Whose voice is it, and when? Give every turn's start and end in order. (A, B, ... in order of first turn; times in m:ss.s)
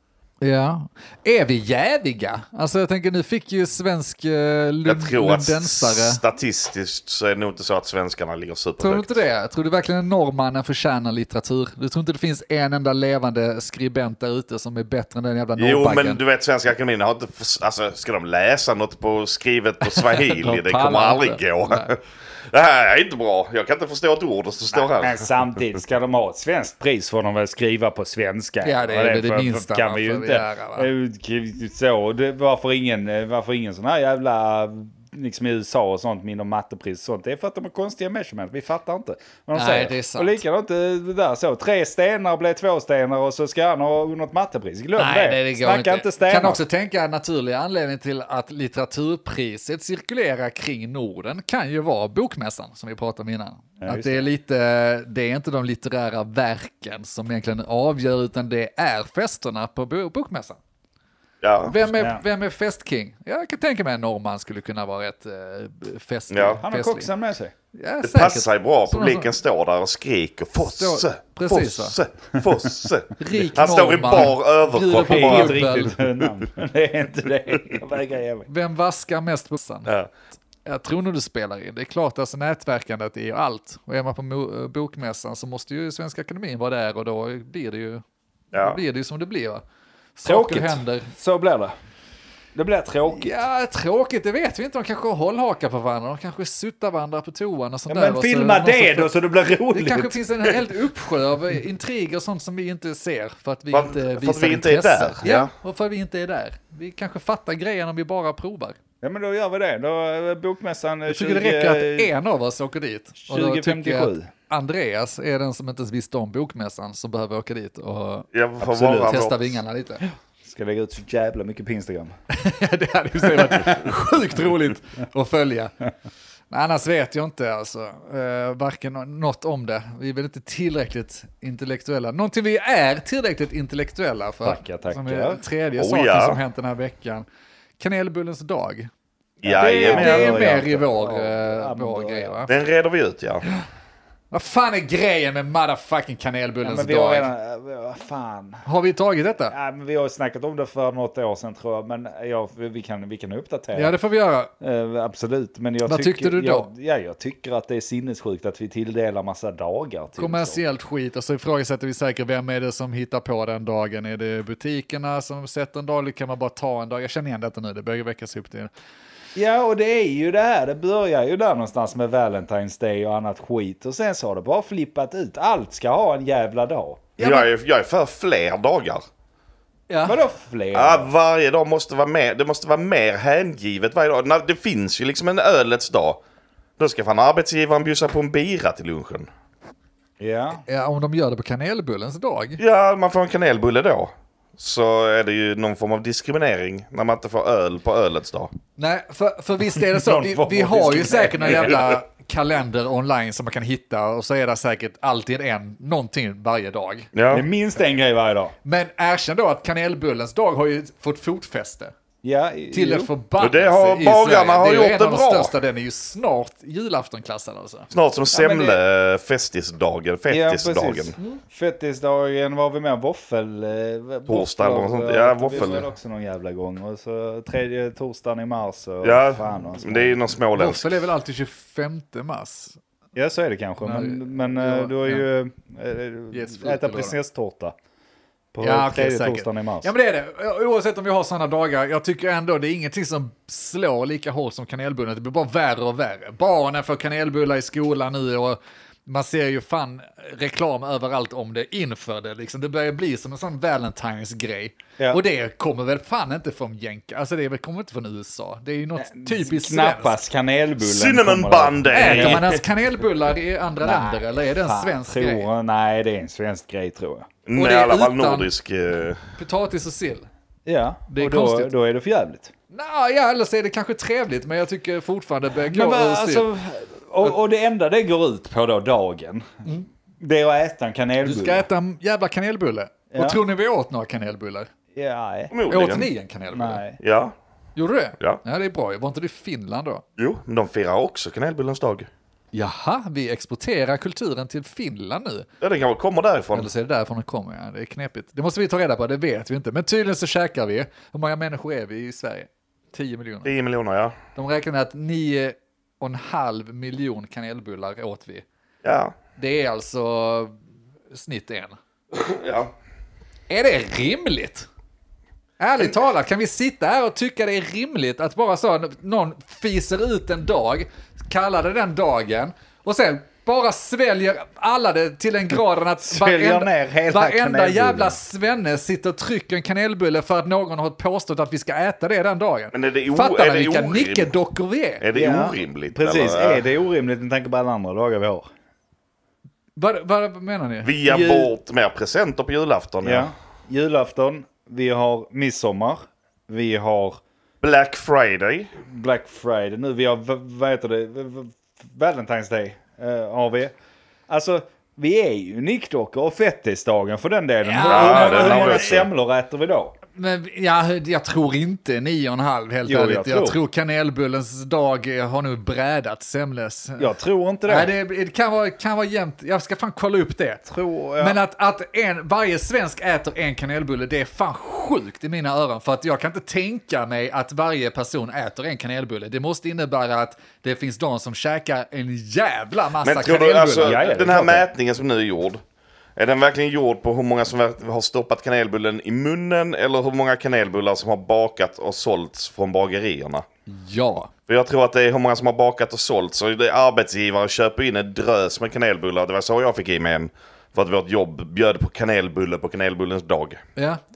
0:00.4-0:06.2 A
0:04.8-0:09.2 B
0:08.8-0:16.2 A
0:15.6-0:25.2 B
0:19.8-0:21.9 A
0:24.7-0:46.6 C
0:28.6-0:30.9 A
0:39.5-0:40.4 A
0:45.0-1:00.6 A
0:53.8-0:54.3 C
1:01.4-1:01.8 B
1:01.7-1:07.1 A
1:02.0-1:02.2 C
1:06.3-1:06.6 B
1:06.6-1:07.5 C
1:07.7-1:09.3 A
1:08.0-1:15.9 B
1:10.6-1:12.0 A
1:13.2-1:16.0 A
1:14.9-1:18.5 C
1:18.5-1:19.9 A
1:20.6-1:28.0 A
1:28.5-1:28.8 B
1:28.5-1:29.6 A
1:30.2-1:31.1 A
1:30.2-1:31.7 C
1:32.5-1:33.3 C
1:33.1-1:39.1 A
1:37.9-1:40.2 C
1:39.7-1:48.8 A
1:43.7-1:45.5 B
1:49.0-1:52.1 C
1:51.1-2:00.0 A
1:53.2-1:54.3 C
1:58.3-1:59.6 B
1:58.7-1:59.1 C
2:00.4-2:02.1 C
2:02.3-2:05.7 A
2:06.5-2:17.2 A
2:14.4-2:15.4 C
2:15.8-2:16.4 B
2:17.8-2:18.9 A
2:19.4-2:20.5 B
2:19.4-2:22.4 C
2:19.6-2:22.5 A
2:22.5-2:23.4 B
2:24.3-2:27.3 A
2:26.6-2:28.6 C
2:28.6-2:29.5 A
2:29.5-2:33.9 C
2:33.7-2:34.5 A
2:34.6-2:40.6 C
2:35.8-2:36.7 A
2:40.2-2:48.7 A
2:49.3-2:57.2 C
2:57.2-2:59.0 B
2:57.2-2:57.5 A
2:59.9-3:00.2 A
3:00.0-3:01.1 C
3:00.7-3:06.2 B
3:06.8-3:09.3 B
3:10.2-3:10.6 C
3:10.6-3:12.6 A
3:12.6-3:18.5 B
3:18.8-3:27.1 A
3:19.7-3:21.8 C
3:27.1-3:27.4 B
3:27.3-3:28.5 C
3:28.6-3:31.9 A
3:32.2-3:33.1 C
3:32.7-3:37.9 A
3:33.4-3:35.5 B
3:37.9-3:41.2 B
3:38.3-3:38.8 C
3:40.3-3:50.2 C
3:44.3-3:45.8 B
3:49.0-3:51.0 B
3:50.6-3:52.8 A
3:53.1-3:57.7 C
3:53.8-3:55.2 A
3:56.3-3:57.2 A
3:58.5-3:59.9 C
3:58.6-4:20.2 A
4:19.0-4:22.4 C
4:20.8-4:22.6 B
4:21.9-4:25.4 A
4:23.8-4:27.3 C
4:27.4-4:29.3 B
4:27.5-4:28.5 A
4:29.4-4:30.3 A
4:30.6-4:32.5 C
4:31.1-4:31.7 A
4:32.7-4:36.5 A
4:35.6-4:39.7 C
4:40.2-4:41.6 C
4:41.2-4:44.7 A
4:43.1-4:43.4 C
4:44.9-4:45.5 C
4:45.5-4:46.1 B
4:45.7-4:46.8 A
4:46.5-4:47.0 C
4:47.0-4:47.3 B
4:47.8-4:50.0 A
4:50.2-4:52.1 B
4:52.5-4:55.4 A
4:55.6-4:56.7 B
4:56.5-5:03.5 A
5:03.4-5:04.2 B
5:04.4-5:08.4 A
5:08.8-5:09.1 B
5:09.4-5:10.6 A
5:11.1-5:11.8 A
5:12.1-5:12.7 B
5:13.5-5:14.7 A
5:15.6-5:35.0 A
5:26.0-5:28.2 C
5:32.7-5:34.3 B
5:35.0-5:36.6 B
5:35.1-5:38.5 C
5:39.8-5:41.5 A
5:40.8-5:43.3 B
5:43.0-5:47.2 C
5:47.6-5:48.7 B
5:48.8-5:53.7 C
5:54.3-5:59.9 C
5:57.6-5:59.0 A
5:57.8-5:59.1 B
6:00.2-6:07.1 A
6:02.8-6:03.6 C
6:07.0-6:07.9 C
6:07.7-6:10.6 A
6:10.7-6:11.4 C
6:11.2-6:24.3 A
6:23.0-6:25.6 B
6:23.8-6:24.6 C
6:26.2-6:33.4 B
6:33.7-6:34.3 A
6:34.5-6:43.6 B